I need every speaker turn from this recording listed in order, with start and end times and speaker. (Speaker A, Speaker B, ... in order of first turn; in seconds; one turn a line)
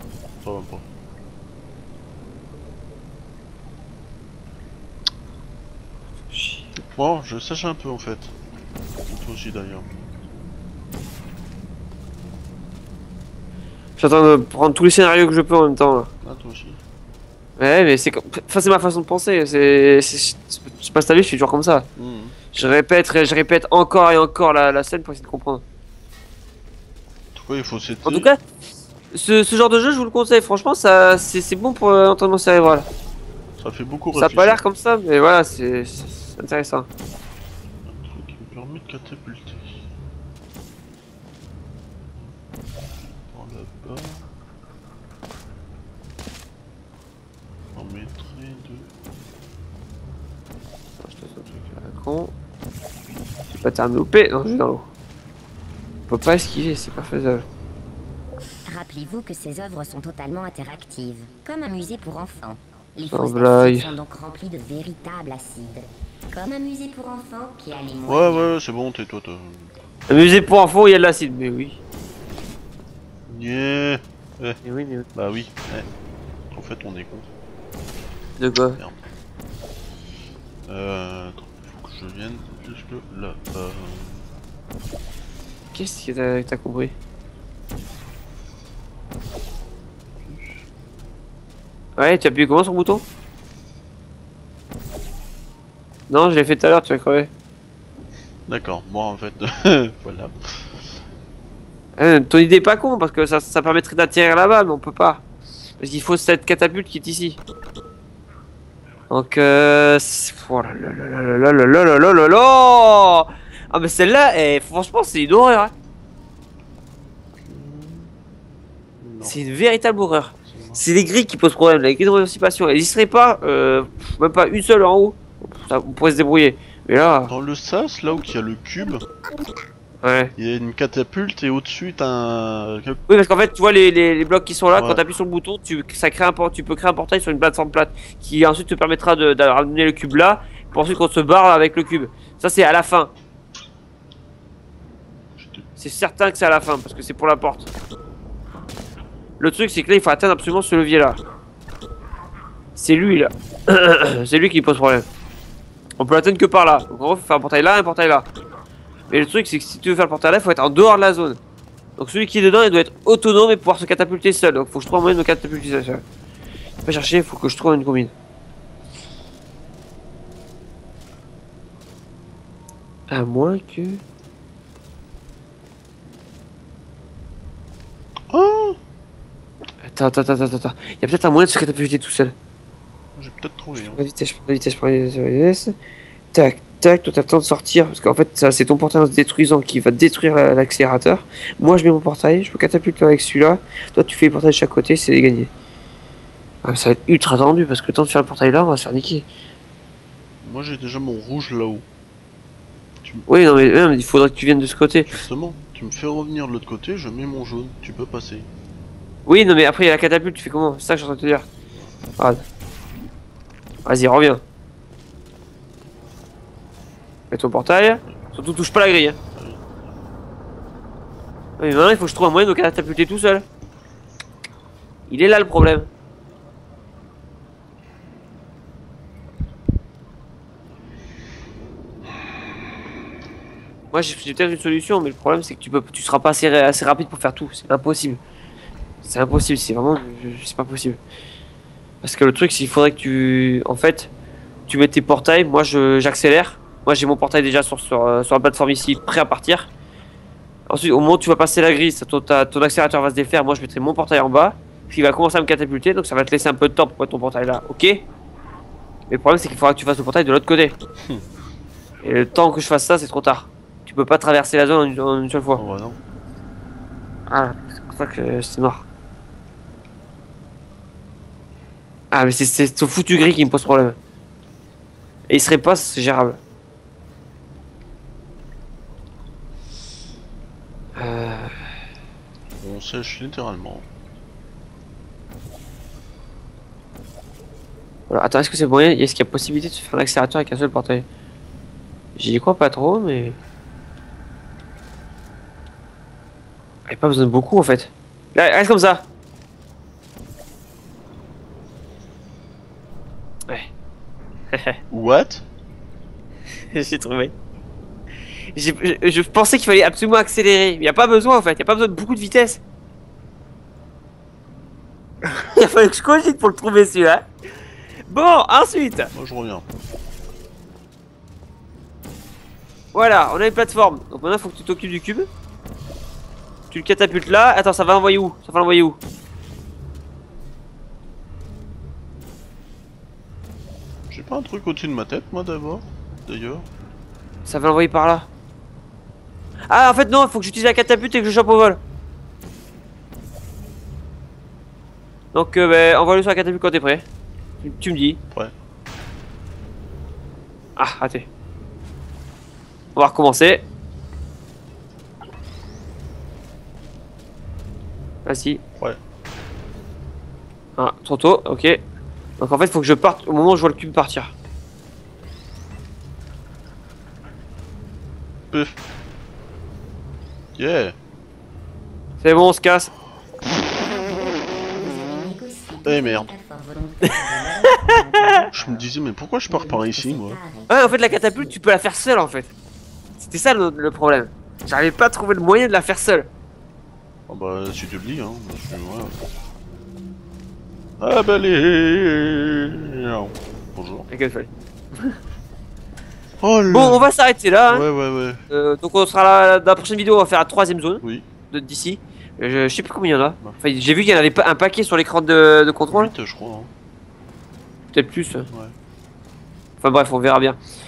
Speaker A: 0.4-0.8
Speaker B: 6.3-6.7
Speaker A: 6.9-8.3
Speaker A: 9.1-9.9
Speaker B: 14.0-16.1
Speaker A: 16.2-16.8
Speaker B: 17.6-21.9
Speaker A: 21.9-22.4
Speaker B: 22.5-25.6
Speaker A: 27.3-28.3
Speaker B: 28.0-28.4
Speaker B: 29.1-32.9
Speaker A: 33.6-34.6
Speaker B: 34.1-36.9
Speaker A: 37.9-39.9
Speaker A: 42.9-44.3
Speaker A: 47.7-48.9
Speaker B: 51.0-52.3
Speaker B: 53.5-54.9
Speaker B: 56.1-57.5
Speaker C: 58.6-68.5
Speaker B: 63.1-63.9
Speaker A: 68.0-69.7
Speaker B: 70.1-71.8
Speaker A: 73.3-74.6
Speaker B: 74.6-75.1
Speaker A: 75.1-75.9
Speaker A: 76.5-77.3
Speaker B: 78.4-78.8
Speaker A: 78.8-79.1
Speaker A: 80.7-84.3
Speaker B: 85.7-86.9
Speaker A: 90.2-90.6
Speaker B: 92.0-93.0
Speaker B: 96.1-97.3
Speaker A: 98.5-100.8
Speaker B: 102.0-105.2
Speaker B: 105.8-107.4
Speaker B: 109.1-115.7
Speaker A: 117.4-118.1
Speaker A: 119.0-119.3
Speaker B: 119.2-127.3
Speaker A: 120.4-120.8
Speaker A: 127.3-129.0
Speaker B: 130.0-130.3
Speaker A: 130.4-133.0
Speaker B: 133.1-143.1
Speaker A: 134.7-135.0
Speaker A: 145.3-145.7
Speaker B: 145.8-147.7
Speaker B: 149.4-151.2
Speaker B: 152.7-155.1
Speaker B: 156.0-158.3
Speaker B: 159.1-161.4
Speaker B: 162.0-166.0
Speaker B: 166.8-168.1
Speaker B: 173.1-174.0
Speaker A: 178.3-178.8
Speaker B: 179.8-182.3
Speaker A: 183.2-184.0
Speaker B: 183.8-185.7
Speaker B: 186.3-195.5
Speaker B: 196.6-199.3
Speaker A: 200.4-201.8
Speaker B: 203.3-205.1
Speaker A: 205.1-208.5
Speaker B: 209.3-211.5
Speaker B: 213.8-214.4
Speaker B: 217.3-219.2
Speaker A: 219.3-219.9
Speaker B: 221.6-223.4
Speaker B: 225.1-225.9
Speaker B: 233.9-238.2
Speaker B: 239.0-241.0
Speaker B: 242.0-244.1
Speaker B: 244.7-249.7
Speaker B: 250.7-258.1
Speaker B: 259.1-260.8
Speaker B: 262.0-265.6
Speaker A: 265.6-266.0
Speaker B: 267.3-268.8
Speaker B: 272.1-273.9
Speaker B: 275.3-276.4
Speaker B: 280.9-281.6
Speaker A: 282.6-283.9
Speaker B: 288.1-291.1
Speaker B: 292.1-293.4
Speaker B: 296.9-299.1
Speaker B: 304.5-304.8
Speaker A: 304.9-305.4
Speaker B: 306.7-307.3
Speaker B: 308.5-312.6
Speaker B: 315.4-317.2
Speaker B: 318.1-319.1
Speaker A: 319.1-319.6
Speaker B: 322.9-325.3
Speaker B: 326.7-329.0
Speaker A: 334.1-336.6
Speaker B: 337.4-338.3
Speaker B: 339.7-341.8
Speaker B: 345.3-347.0
Speaker B: 347.6-348.2
Speaker B: 350.8-351.3
Speaker B: 352.9-353.6
Speaker B: 358.2-358.6
Speaker B: 360.8-361.8
Speaker B: 362.4-364.3
Speaker A: 370.6-370.9
Speaker B: 372.2-372.9
Speaker C: 373.7-378.9
Speaker A: 375.8-376.3
Speaker B: 377.1-378.4
Speaker A: 378.5-380.4
Speaker C: 379.5-381.6
Speaker B: 380.7-382.5
Speaker B: 383.2-386.3
Speaker A: 387.3-389.2
Speaker A: 391.0-394.1
Speaker B: 394.1-395.1
Speaker A: 396.4-397.1
Speaker B: 396.7-397.9
Speaker A: 397.7-398.4
Speaker B: 398.5-406.1
Speaker A: 405.9-406.7
Speaker B: 407.9-408.5
Speaker A: 408.5-408.7
Speaker B: 409.8-410.6